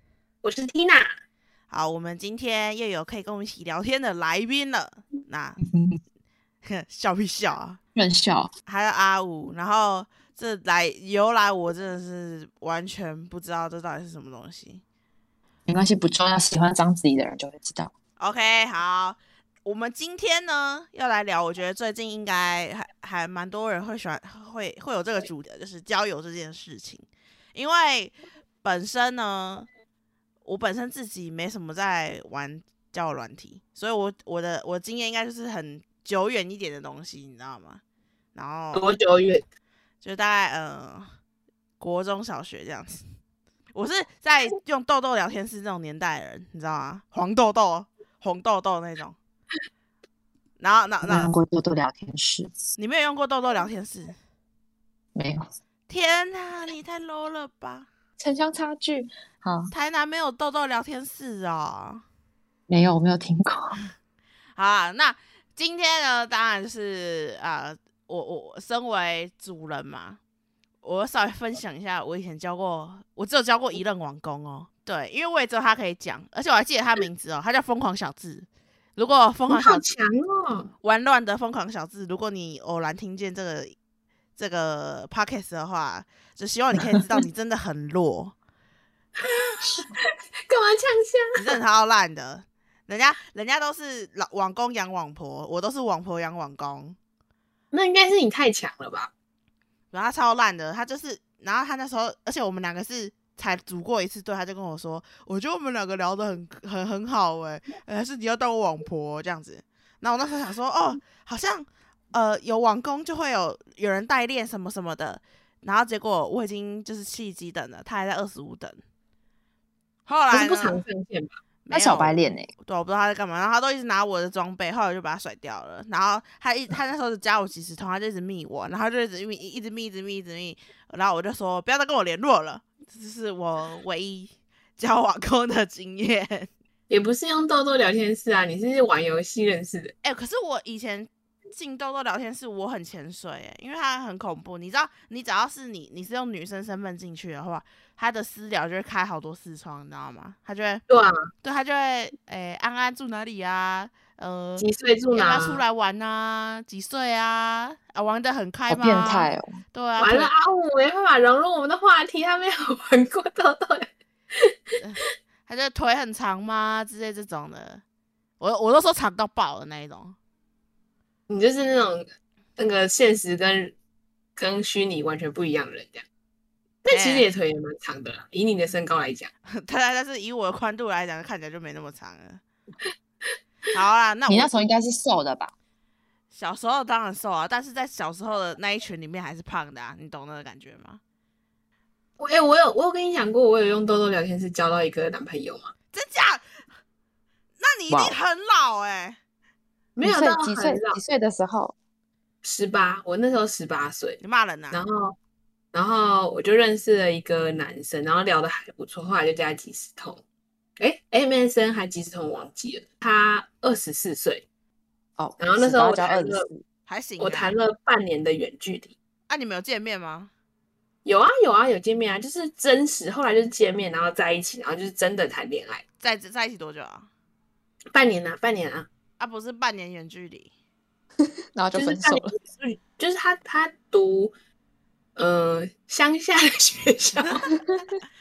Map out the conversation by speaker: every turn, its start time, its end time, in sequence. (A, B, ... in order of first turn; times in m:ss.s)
0:00.4-0:01.1 A
0:01.7-0:05.6 B
0:05.6-0:06.0 C
0:06.6-0:07.8 B
0:08.0-0:08.5 C
0:08.7-0:14.8 B
0:15.7-0:17.9 C
0:18.2-0:29.7 B
0:30.4-0:37.8 B
0:38.4-0:38.9 B
0:38.7-0:39.4 A
0:40.0-0:41.1 B
0:41.8-0:43.0 B
0:43.8-0:49.2 B
0:50.6-0:51.3 B
0:51.0-0:52.5 C
0:52.8-0:54.2 B
0:55.2-0:55.5 C
0:55.9-0:57.9 B
0:58.2-0:59.7 C
0:59.7-1:02.0 B
1:02.7-1:03.8 C
1:04.6-1:10.2 B
1:10.8-1:19.9 B
1:19.5-1:20.7 A
1:20.8-1:23.8 B
1:24.4-1:28.3 B
1:29.2-1:31.4 A
1:31.4-1:37.0 B
1:37.7-1:39.1 A
1:39.9-1:58.8 B
2:00.1-2:00.8 B
2:00.3-2:01.4 A
2:01.7-2:16.5 B
2:01.7-2:02.5 C
2:16.9-2:19.9 A
2:20.0-2:30.8 B
2:30.9-2:31.2 A
2:31.4-2:40.3 B
2:34.6-2:35.6 A
2:38.7-2:39.6 C
2:40.0-2:44.8 A
2:44.8-2:47.8 B
2:48.4-2:50.2 B
2:51.3-2:53.8 A
2:54.4-2:56.1 A
2:56.8-2:59.3 A
2:56.9-2:57.3 B
2:59.5-3:02.4 B
3:03.7-3:04.7 B
3:04.3-3:05.5 C
3:06.3-3:11.0 B
3:12.2-3:15.7 A
3:15.9-3:16.5 B
3:17.6-3:19.2 B
3:17.9-3:18.2 C
3:20.0-3:21.0 A
3:20.0-3:21.8 C
3:22.4-3:24.2 A
3:24.2-3:24.8 B
3:24.7-3:25.2 A
3:25.7-3:30.2 A
3:30.8-3:34.5 A
3:35.2-3:36.6 C
3:35.4-3:36.5 A
3:36.9-3:37.6 B
3:37.2-3:39.0 A
3:39.3-3:40.3 B
3:41.0-3:45.8 A
3:46.0-3:47.1 B
3:47.9-3:48.9 A
3:49.2-3:50.5 B
3:51.5-3:52.4 C
3:51.8-3:54.3 A
3:55.2-3:57.5 A